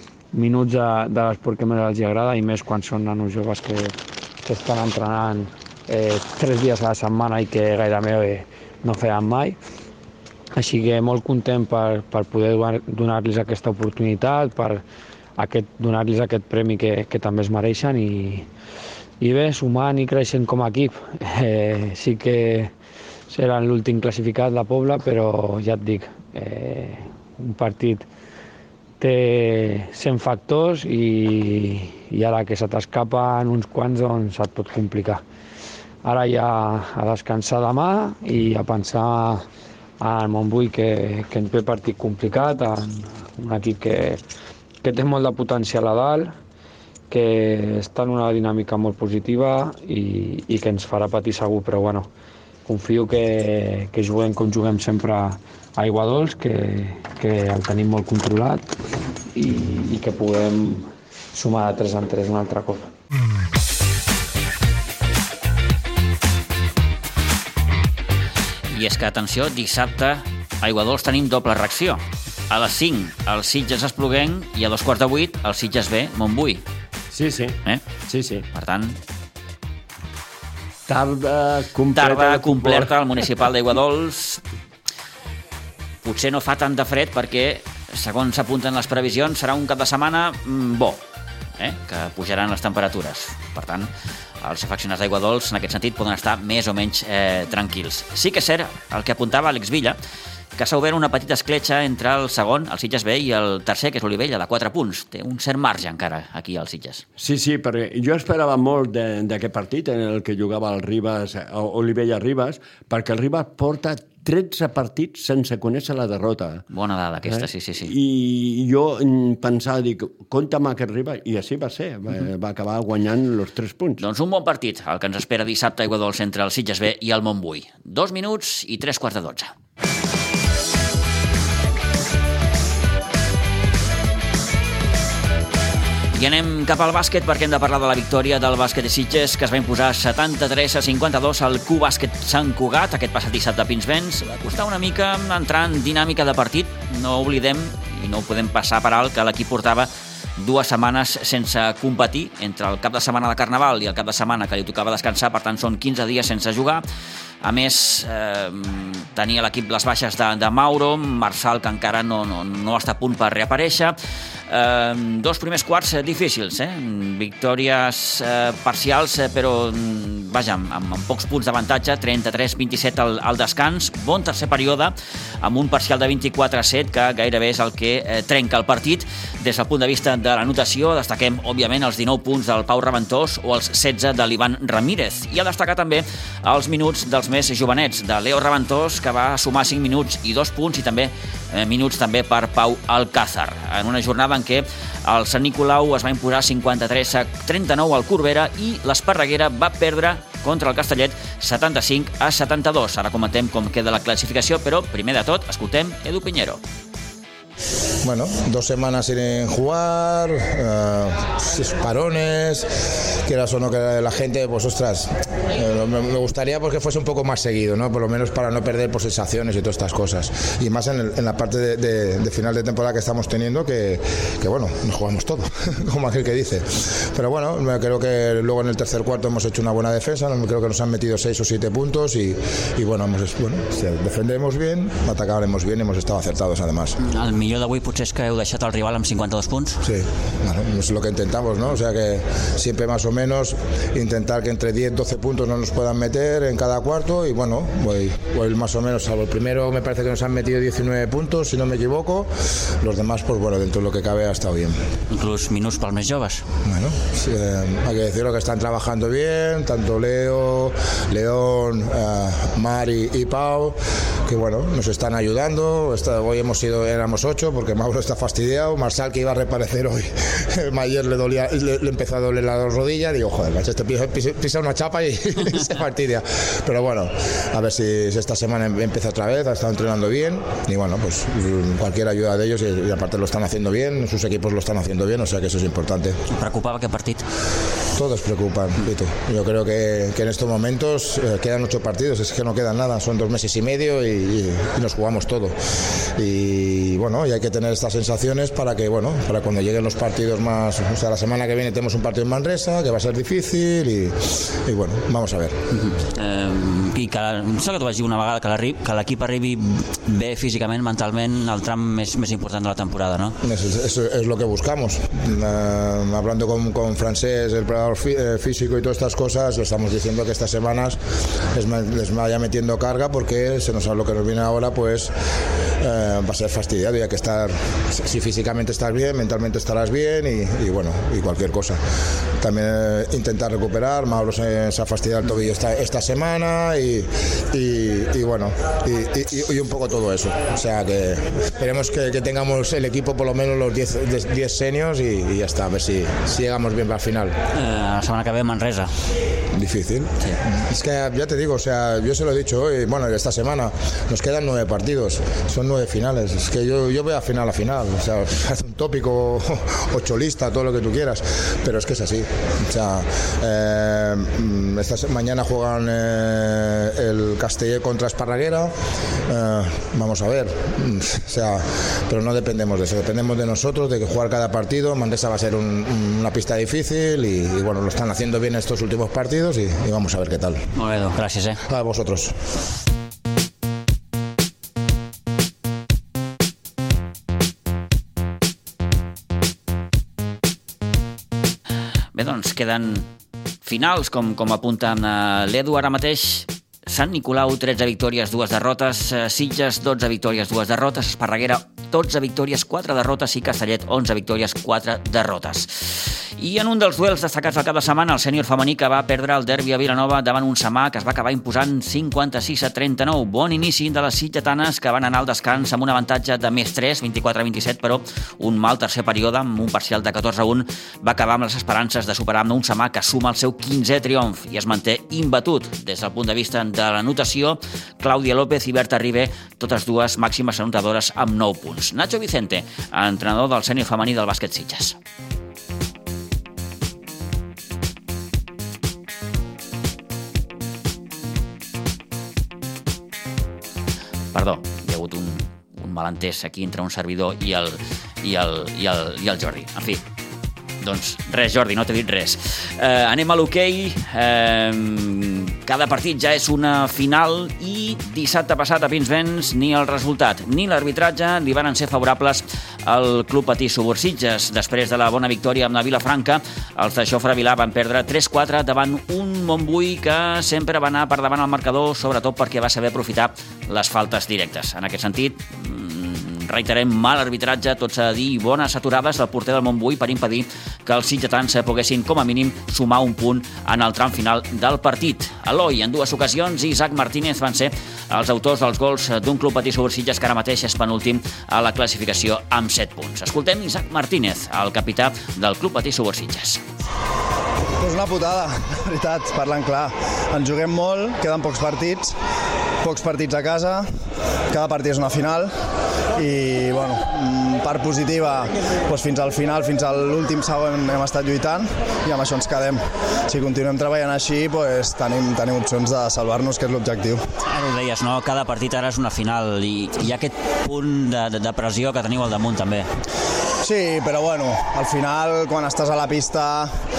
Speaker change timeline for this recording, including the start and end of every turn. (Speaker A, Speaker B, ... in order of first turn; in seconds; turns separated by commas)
Speaker A: 0.3-9.6, Speaker A: 10.6-14.8, Speaker A: 15.4-18.5, Speaker A: 19.2-22.7, Speaker A: 23.3-28.1, Speaker A: 29.0-35.2, Speaker A: 36.0-39.4, Speaker A: 40.0-44.2, Speaker A: 44.8-46.3, Speaker A: 47.1-52.1, Speaker A: 52.6-58.7, Speaker A: 59.3-62.9, Speaker B: 68.7-76.6, Speaker C: 77.1-78.5, Speaker B: 78.5-79.0, Speaker C: 80.9-82.9, Speaker B: 81.9-84.4, Speaker B: 86.0-91.0, Speaker B: 91.6-100.0, Speaker B: 100.6-107.0, Speaker C: 107.2-116.6, Speaker B: 116.7-117.9, Speaker C: 117.2-124.0, Speaker B: 124.0-129.5, Speaker B: 136.1-156.8, Speaker B: 157.4-163.9, Speaker B: 164.5-206.6, Speaker D: 208.0-212.7, Speaker D: 213.2-237.0, Speaker B: 237.0-239.8, Speaker D: 239.8-254.8, Speaker B: 255.1-256.4, Speaker D: 256.7-286.2, Speaker B: 286.3-287.2, Speaker D: 287.9-295.6, Speaker D: 296.2-305.6, Speaker B: 305.7-313.4, Speaker D: 313.4-321.0, Speaker D: 321.5-325.1, Speaker D: 325.8-331.8, Speaker D: 332.4-347.3, Speaker B: 347.5-348.9, Speaker D: 349.6-368.7, Speaker D: 369.3-380.6, Speaker B: 380.7-381.6, Speaker D: 381.7-382.4, Speaker B: 392.1-393.1, Speaker B: 393.6-435.0, Speaker B: 444.3-450.0, Speaker B: 450.8-496.6, Speaker E: 497.8-502.1, Speaker E: 502.8-503.9, Speaker E: 504.5-505.5, Speaker E: 506.1-517.2, Speaker B: 517.4-522.9, Speaker E: 523.6-526.8